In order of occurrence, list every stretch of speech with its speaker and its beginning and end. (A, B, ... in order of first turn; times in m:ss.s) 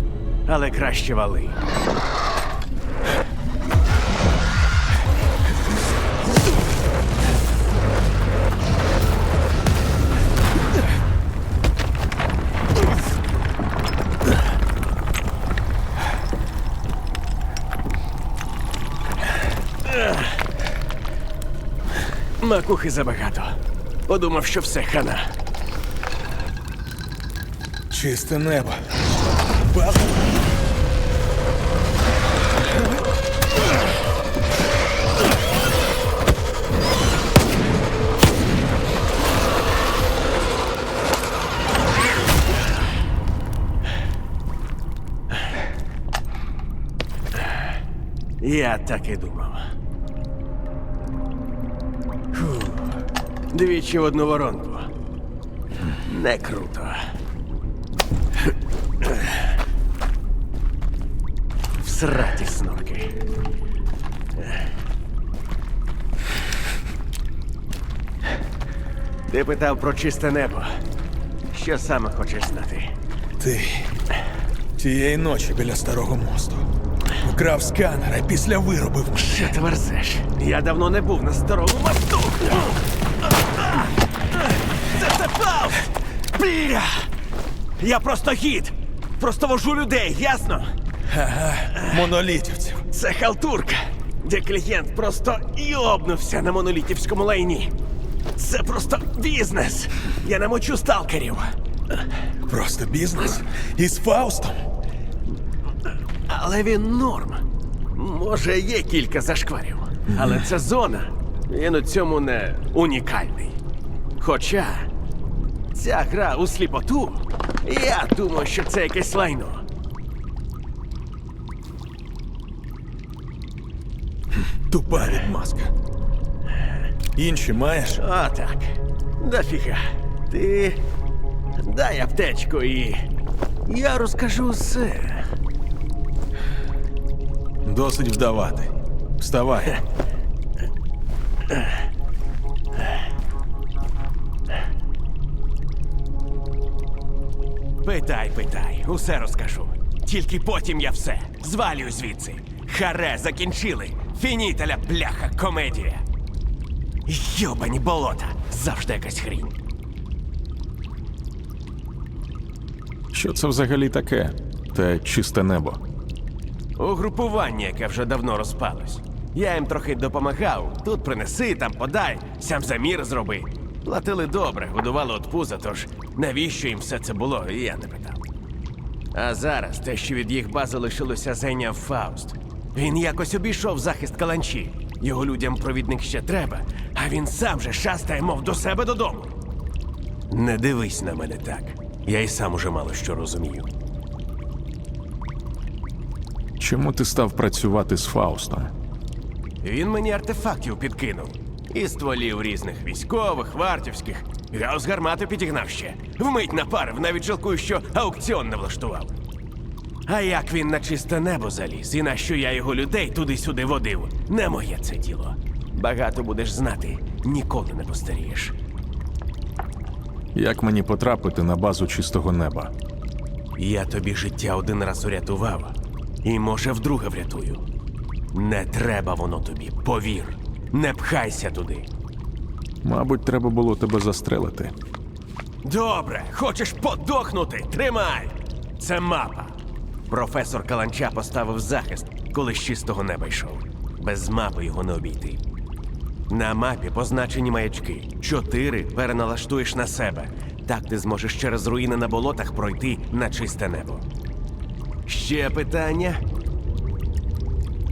0:00.4-0:01.6 A
0:19.8-0:20.3 A
0:22.4-0:25.3 A
0:27.9-0:28.8 B
0:29.7-0:30.1 B
0:48.4-0:49.7 A
0:52.3-0:53.0 A
0:53.5-0:54.9 A
0:56.0-0:57.1 A
0:59.0-0:59.4 A
1:01.8-1:03.2 A
1:09.3-1:10.8 A
1:11.5-1:12.9 A
1:13.4-1:13.8 B
1:14.8-1:16.7 B
1:17.2-1:19.3 B
1:19.2-1:22.8 A
1:23.4-1:27.1 A
1:27.8-1:30.7 A
1:31.3-1:32.8 B
1:31.6-1:32.1 A
1:32.9-1:37.7 A
1:38.4-1:41.6 A
1:42.5-1:44.6 B
1:46.3-1:53.6 A
1:54.2-1:54.9 A
1:55.7-1:59.6 A
2:04.7-2:05.7 B
2:07.2-2:08.0 B
2:08.0-2:10.8 A
2:11.6-2:13.0 A
2:13.6-2:15.3 A
2:17.6-2:19.8 B
2:27.8-2:36.0 A
2:37.1-2:39.6 A
2:43.1-2:45.8 C
2:46.8-2:58.2 A
2:59.1-3:09.4 A
3:10.3-3:13.7 A
3:16.6-3:18.7 C
3:19.6-3:29.1 A
3:30.1-3:38.6 A
3:40.4-3:42.7 B
3:40.4-3:42.2 C
3:43.6-3:47.6 A
3:48.3-3:51.9 A
3:52.8-3:54.7 B
3:53.0-3:54.6 C
3:55.6-3:59.6 A
4:00.1-4:05.4 A
4:06.3-4:14.1 A
4:15.1-4:16.2 A